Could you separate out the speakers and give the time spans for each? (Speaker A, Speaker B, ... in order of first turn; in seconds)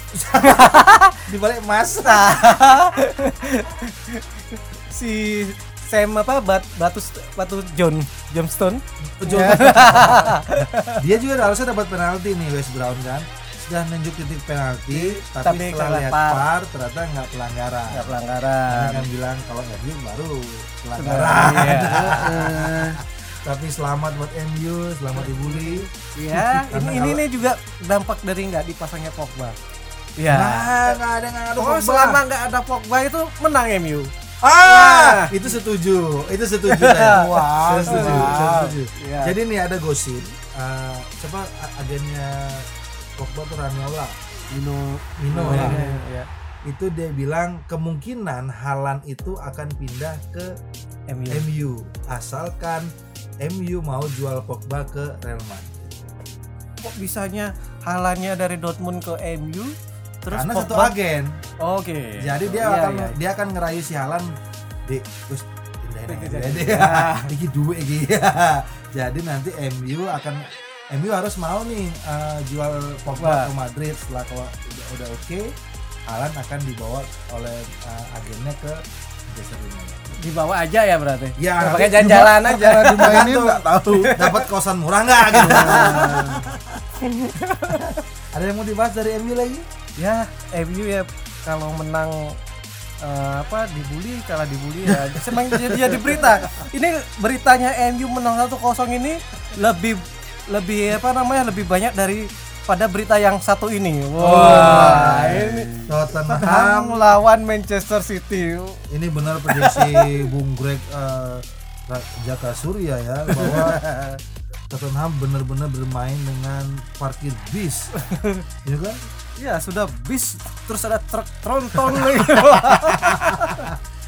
Speaker A: 0.1-2.9, 9.1-18.2, 18.7-27.2, 30.3-32.2, 34.4-44.1, 45.2-45.8, 46.6-50.5, 51.3-52.9, 53.4-56.1, 60.3-61.4, 62.2-64.3, 64.9-75.5, 76.1-80.2, 81.4-86.8, 87.7-89.7, 104.2-107.0, 108.9-114.2, 114.7-117.9, 118.6-119.0, 121.9-123.8
Speaker B: 0.4-1.2, 2.0-11.0, 14.9-16.4, 17.9-19.1, 21.0-22.2, 25.3-29.6, 30.2-31.0, 31.6-34.1, 34.6-35.4, 36.7-39.4, 45.4-46.3, 51.1-51.5, 56.8-59.7, 60.2-60.9, 61.6-63.1, 66.1-67.3, 73.1-73.5, 80.2-83.3, 83.9-84.5, 85.3-86.4, 87.0-87.9, 90.0-92.4, 93.0-108.8, 109.5-110.2, 113.4-113.7, 118.0-118.4, 119.4-123.7
Speaker C: 21.6-23.0, 37.2-38.5, 44.5-46.0, 82.1-84.2, 85.3-86.4, 94.9-96.0, 104.4-105.9